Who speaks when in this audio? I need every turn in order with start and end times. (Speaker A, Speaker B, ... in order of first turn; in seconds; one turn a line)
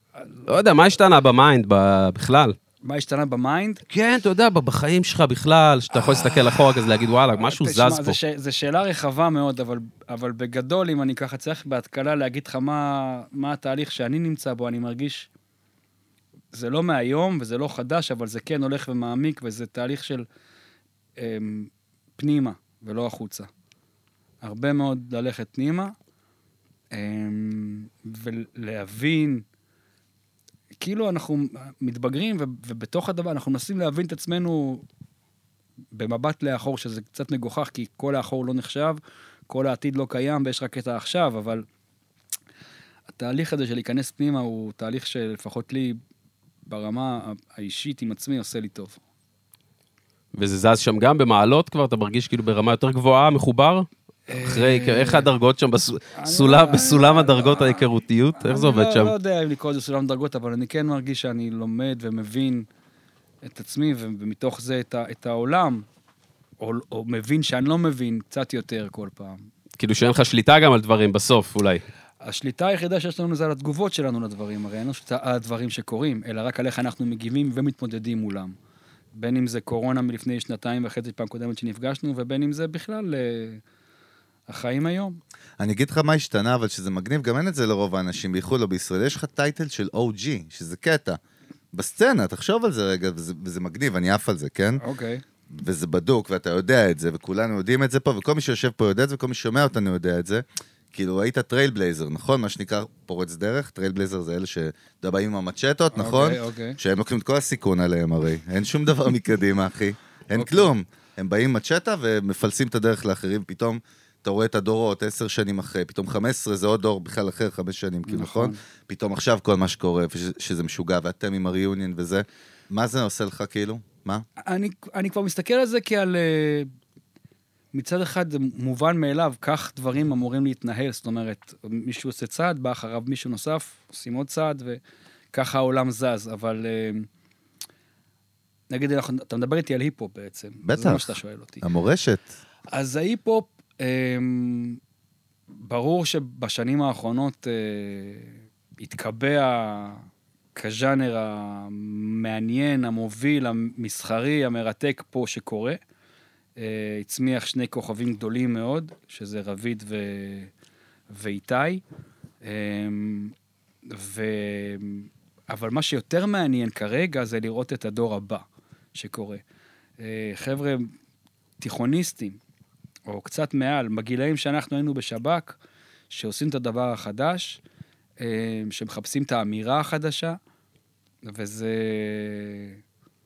Speaker A: 0.5-2.5
Speaker B: 2.8-3.8
Speaker A: 3.9-8.2
Speaker B: 6.0-6.6
Speaker B: 7.4-15.3
Speaker B: 16.5-20.2
Speaker B: 21.2-23.5
Speaker B: 24.4-25.9
Speaker B: 26.9-29.4
Speaker B: 30.8-34.8
Speaker B: 35.9-41.6
Speaker B: 43.1-46.0
Speaker B: 46.7-49.0
Speaker A: 50.3-53.9
Speaker B: 54.3-55.3
Speaker A: 54.4-59.1
Speaker B: 56.1-57.9
Speaker B: 58.4-62.7
Speaker B: 63.4-65.8
Speaker B: 66.6-69.4
Speaker A: 69.8-71.8
Speaker B: 72.2-78.5
Speaker B: 79.1-83.6
Speaker B: 84.5-85.2
Speaker C: 85.6-91.2
Speaker C: 91.7-94.8
Speaker B: 94.8-95.2
Speaker C: 95.5-124.2
Speaker B: 105.9-106.8
Speaker B: 110.3-110.7
Speaker B: 118.0-118.6
Speaker B: 124.5-126.7
Speaker B: 127.7-134.8
Speaker B: 135.3-137.1
Speaker B: 138.7-141.6
Speaker C: 140.6-142.2
Speaker B: 142.7-144.8
Speaker B: 145.6-150.0
Speaker B: 150.6-155.8
Speaker B: 156.6-160.5
Speaker B: 161.1-161.8
Speaker B: 162.4-163.3
Speaker B: 163.9-168.4
Speaker B: 168.9-169.4
Speaker B: 170.0-170.9
Speaker B: 171.6-172.4
Speaker B: 173.1-175.6
Speaker B: 176.1-177.6
Speaker B: 178.2-180.4
Speaker B: 181.2-182.8